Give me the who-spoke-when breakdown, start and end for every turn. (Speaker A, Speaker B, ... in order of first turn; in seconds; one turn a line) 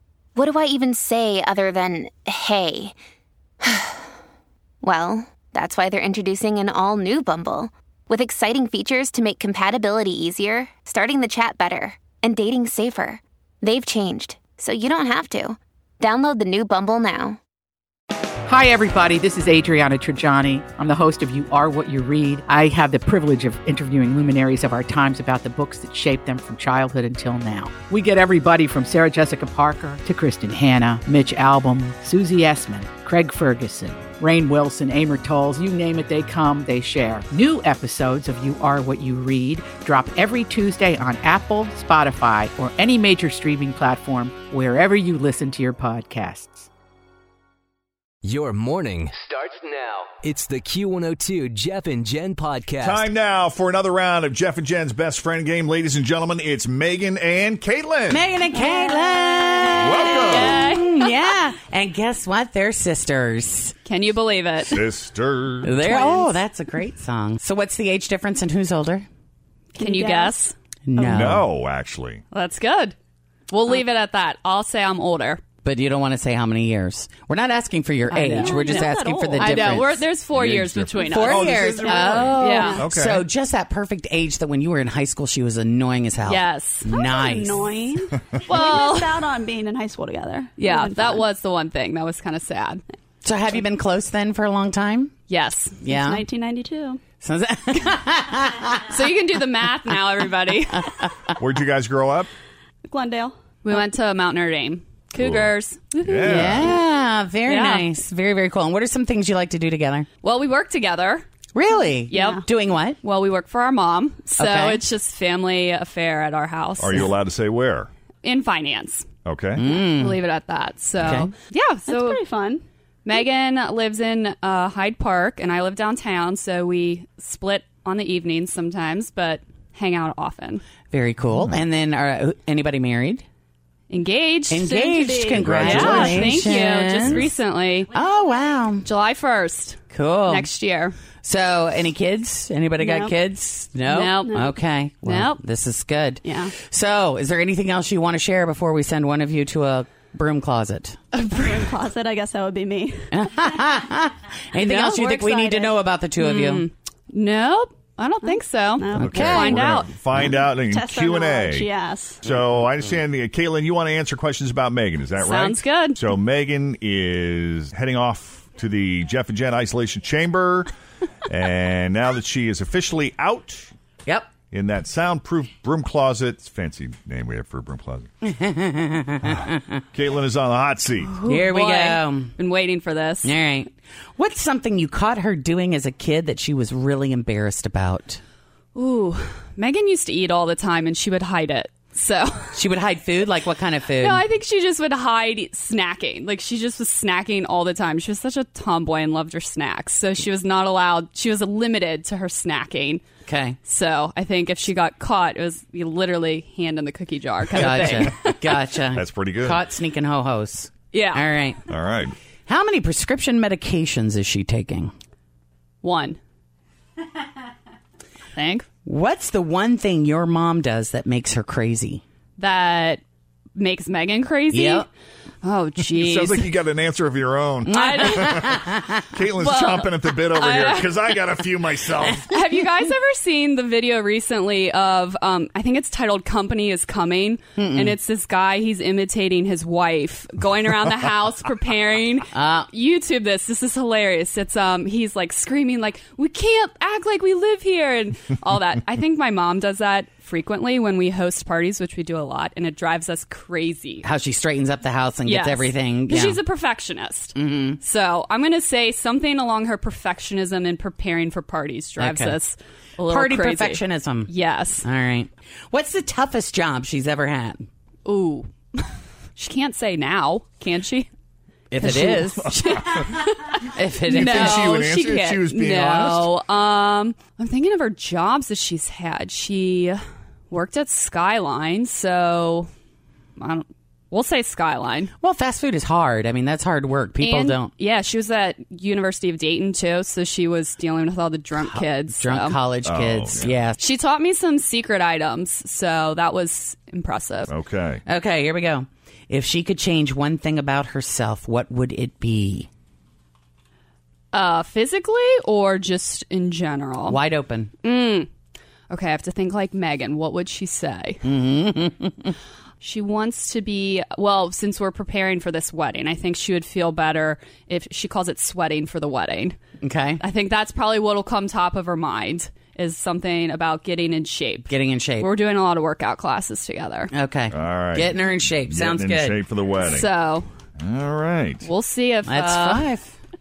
Speaker A: 0.3-3.0
Speaker A: 3.6-4.1
Speaker A: 4.8-17.4
Speaker B: 18.4-46.7
Speaker C: 48.2-53.1
Speaker D: 52.8-58.3
Speaker E: 58.1-63.7
Speaker F: 58.5-59.4
Speaker D: 59.8-60.7
Speaker G: 60.0-61.1
Speaker G: 63.8-64.8
Speaker D: 64.7-65.8
Speaker E: 65.6-69.1
Speaker G: 65.8-66.3
Speaker F: 69.7-70.4
Speaker G: 69.8-70.5
Speaker E: 70.9-71.5
Speaker F: 71.0-71.3
Speaker D: 71.1-72.2
Speaker G: 72.3-72.9
Speaker G: 73.5-75.4
Speaker E: 75.6-80.0
Speaker F: 78.1-80.0
Speaker G: 78.1-82.8
Speaker D: 80.3-83.2
Speaker E: 81.1-87.7
Speaker F: 81.4-82.8
Speaker G: 86.2-86.9
Speaker F: 86.9-91.3
Speaker G: 88.5-89.2
Speaker G: 90.6-92.8
Speaker E: 93.2-95.1
Speaker G: 95.3-95.8
Speaker E: 95.8-96.2
Speaker F: 95.8-97.0
Speaker E: 97.2-98.9
Speaker G: 98.9-100.9
Speaker D: 101.4-102.3
Speaker F: 102.9-103.9
Speaker G: 103.6-106.8
Speaker D: 105.2-106.7
Speaker E: 106.2-110.1
Speaker G: 107.5-107.9
Speaker G: 110.2-111.3
Speaker E: 111.5-113.0
Speaker F: 111.7-112.4
Speaker G: 112.1-112.4
Speaker G: 113.0-117.1
Speaker E: 114.4-114.8
Speaker D: 116.8-117.9
Speaker G: 118.2-119.0
Speaker D: 119.2-119.6
Speaker E: 119.6-120.2
Speaker G: 119.7-122.2
Speaker E: 121.0-121.3
Speaker F: 121.9-122.6
Speaker G: 123.0-130.6
Speaker E: 130.9-133.2
Speaker D: 131.3-131.6
Speaker G: 133.9-137.9
Speaker E: 134.5-137.3
Speaker F: 134.9-136.2
Speaker D: 135.4-136.4
Speaker D: 137.0-137.3
Speaker E: 137.9-138.9
Speaker G: 138.8-140.9
Speaker E: 139.9-140.5
Speaker E: 141.2-151.0
Speaker F: 142.8-143.1
Speaker G: 143.9-144.4
Speaker F: 144.2-144.5
Speaker G: 145.0-145.4
Speaker F: 146.2-146.5
Speaker F: 151.2-153.1
Speaker G: 151.4-151.7
Speaker E: 153.1-156.6
Speaker G: 154.6-155.5
Speaker F: 155.0-155.7
Speaker G: 156.2-159.9
Speaker F: 158.2-159.6
Speaker D: 159.0-161.7
Speaker E: 159.0-159.6
Speaker F: 160.3-162.2
Speaker D: 162.2-170.7
Speaker G: 165.2-166.0
Speaker D: 171.3-173.7
Speaker D: 174.5-178.1
Speaker E: 178.2-179.8
Speaker D: 179.2-181.1
Speaker E: 181.2-182.3
Speaker G: 181.2-183.3
Speaker E: 183.2-188.2
Speaker G: 188.7-192.6
Speaker E: 192.5-194.2
Speaker G: 194.0-203.0
Speaker E: 203.3-203.6
Speaker G: 203.6-208.5
Speaker E: 207.5-211.6
Speaker D: 208.9-209.6
Speaker G: 210.9-211.2
Speaker D: 211.7-212.1
Speaker E: 212.5-214.9
Speaker G: 215.8-216.2
Speaker G: 218.3-218.7
Speaker E: 218.8-222.0
Speaker G: 222.4-223.0
Speaker G: 223.6-224.9
Speaker E: 224.5-224.9
Speaker G: 225.4-226.5
Speaker D: 225.9-232.3
Speaker E: 227.7-229.1
Speaker G: 227.7-228.4
Speaker G: 229.4-231.2
Speaker G: 232.3-254.0
Speaker E: 237.6-237.9
Speaker E: 242.3-242.7
Speaker E: 254.0-256.4
Speaker G: 255.2-264.8
Speaker E: 257.4-257.8
Speaker E: 262.0-262.4
Speaker E: 263.1-264.3
Speaker E: 264.8-267.7
Speaker G: 268.1-268.8
Speaker G: 269.4-271.1
Speaker E: 271.7-272.5
Speaker G: 271.8-282.7
Speaker D: 272.4-273.0
Speaker E: 273.7-274.7
Speaker D: 274.1-276.3
Speaker G: 283.4-285.1
Speaker E: 285.2-287.7
Speaker G: 287.2-292.6
Speaker E: 291.6-293.8
Speaker D: 292.8-293.6
Speaker G: 293.8-297.5
Speaker D: 297.5-298.0
Speaker E: 298.1-302.7
Speaker G: 304.3-307.2
Speaker E: 307.1-307.7
Speaker G: 307.8-308.3
Speaker G: 308.9-311.2
Speaker E: 311.2-312.3
Speaker G: 312.8-319.6
Speaker E: 319.8-320.2
Speaker G: 320.2-327.1
Speaker E: 324.7-325.3
Speaker E: 327.1-329.4
Speaker D: 327.5-330.1
Speaker G: 329.8-330.4
Speaker D: 330.8-331.7
Speaker G: 331.6-332.9
Speaker E: 332.2-333.2